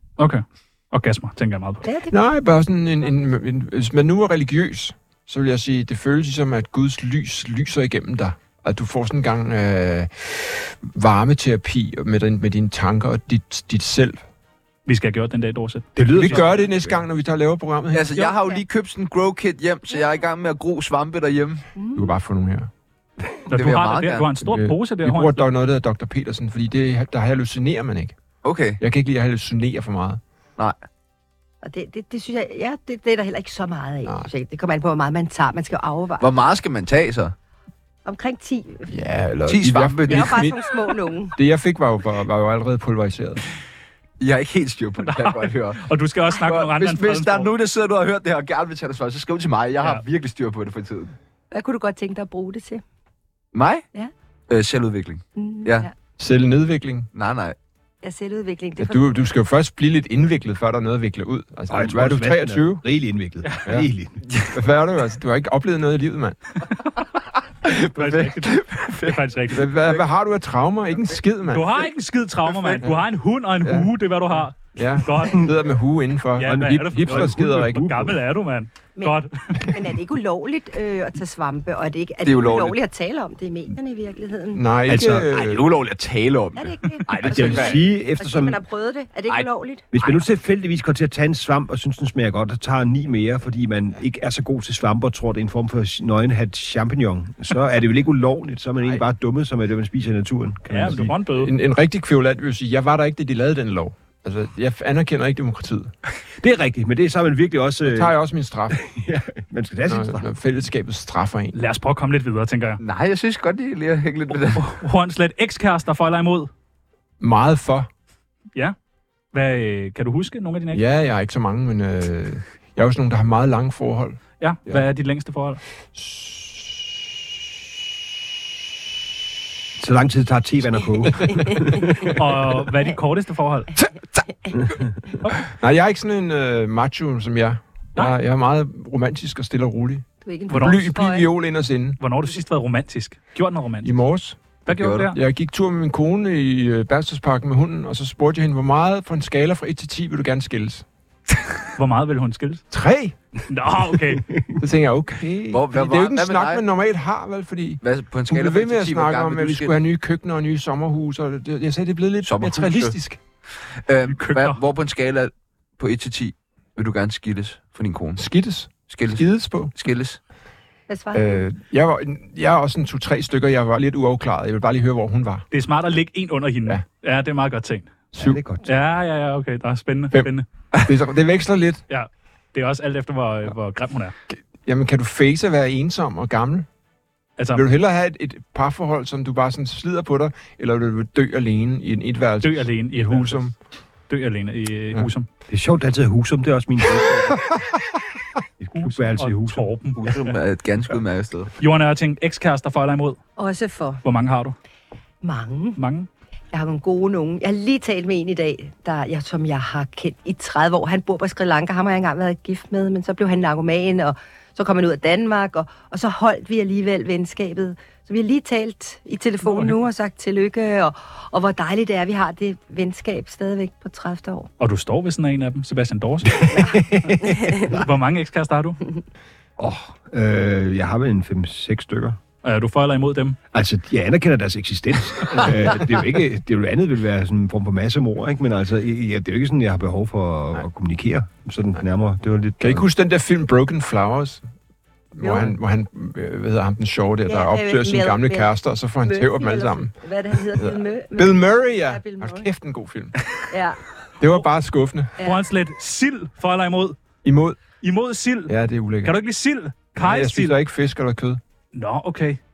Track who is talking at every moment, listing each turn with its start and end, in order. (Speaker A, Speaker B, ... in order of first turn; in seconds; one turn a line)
Speaker A: 0.2-1.8
Speaker B: 1.8-2.1
Speaker C: 2.1-14.2
Speaker A: 14.8-16.4
Speaker D: 15.9-17.0
Speaker C: 16.1-18.2
Speaker E: 17.9-21.6
Speaker C: 21.9-22.7
Speaker A: 23.5-25.5
Speaker E: 23.5-24.3
Speaker C: 24.4-28.1
Speaker E: 28.4-28.8
Speaker C: 28.8-30.2
Speaker B: 31.6-36.2
Speaker E: 36.2-37.3
Speaker B: 38.0-38.9
Speaker C: 38.9-40.6
Speaker E: 39.5-40.4
Speaker B: 40.0-41.3
Speaker C: 41.3-43.4
Speaker E: 44.2-45.8
Speaker A: 45.0-47.5
Speaker E: 46.3-51.1
Speaker B: 51.5-52.8
Speaker E: 53.5-53.8
Speaker E: 54.5-55.9
Speaker B: 55.4-55.9
Speaker C: 56.2-57.1
Speaker E: 57.1-57.5
Speaker B: 58.0-59.1
Speaker C: 58.8-62.8
Speaker D: 61.7-64.2
Speaker C: 64.5-66.4
Speaker E: 67.6-69.6
Speaker A: 67.9-69.7
Speaker C: 69.5-71.8
Speaker A: 71.5-75.5
Speaker E: 72.5-72.8
Speaker C: 73.6-78.1
Speaker A: 76.4-79.8
Speaker D: 76.5-78.0
Speaker B: 79.0-84.6
Speaker E: 82.2-82.8
Speaker C: 84.5-85.7
Speaker D: 84.9-85.3
Speaker E: 85.0-87.8
Speaker B: 86.5-89.9
Speaker D: 87.2-88.6
Speaker C: 87.3-87.7
Speaker D: 89.9-101.1
Speaker A: 100.7-101.5
Speaker C: 101.3-105.9
Speaker D: 106.4-108.1
Speaker C: 107.8-108.8
Speaker D: 108.7-110.2
Speaker C: 109.9-111.6
Speaker A: 111.5-112.8
Speaker E: 112.8-114.7
Speaker A: 114.5-116.5
Speaker C: 117.2-117.9
Speaker A: 119.3-120.8
Speaker C: 120.7-124.9
Speaker A: 124.4-125.6
Speaker C: 125.9-126.6
Speaker D: 129.8-132.5
Speaker A: 132.2-133.7
Speaker C: 135.5-142.0
Speaker B: 140.2-141.3
Speaker A: 140.5-140.8
Speaker A: 142.0-143.9
Speaker C: 143.8-150.8
Speaker A: 144.7-145.2
Speaker E: 144.7-145.1
Speaker A: 151.8-152.6
Speaker C: 152.7-153.2
Speaker A: 153.5-154.3
Speaker C: 154.6-163.2
Speaker E: 155.5-156.6
Speaker E: 157.8-159.7
Speaker E: 162.2-162.9
Speaker E: 163.9-168.2
Speaker A: 164.1-164.6
Speaker C: 168.2-169.7
Speaker E: 168.9-170.2
Speaker B: 170.9-171.5
Speaker C: 171.1-175.4
Speaker A: 175.5-178.0
Speaker D: 178.1-178.7
Speaker A: 178.6-180.4
Speaker C: 180.1-181.8
Speaker A: 181.9-184.1
Speaker C: 184.3-186.7
Speaker A: 187.4-187.7
Speaker C: 187.5-193.5
Speaker A: 192.4-193.4
Speaker A: 194.1-195.3
Speaker D: 195.5-197.6
Speaker D: 198.6-199.7
Speaker A: 198.8-200.3
Speaker E: 200.0-201.5
Speaker A: 201.6-203.2
Speaker B: 203.4-204.0
Speaker A: 204.0-204.5
Speaker B: 205.2-205.8
Speaker A: 205.8-206.1
Speaker B: 206.5-224.5
Speaker A: 219.4-219.8
Speaker A: 224.6-228.8
Speaker D: 226.3-227.8
Speaker B: 227.2-227.7
Speaker D: 229.6-232.2
Speaker A: 232.4-233.4
Speaker D: 233.5-242.8
Speaker C: 242.6-244.4
Speaker C: 245.1-249.9
Speaker B: 245.2-245.5
Speaker B: 247.3-252.5
Speaker C: 250.5-253.2
Speaker B: 253.5-253.8
Speaker C: 254.2-255.1
Speaker A: 255.2-257.0
Speaker C: 257.2-257.6
Speaker A: 257.8-260.6
Speaker C: 258.5-259.1
Speaker C: 259.9-261.4
Speaker A: 261.7-262.4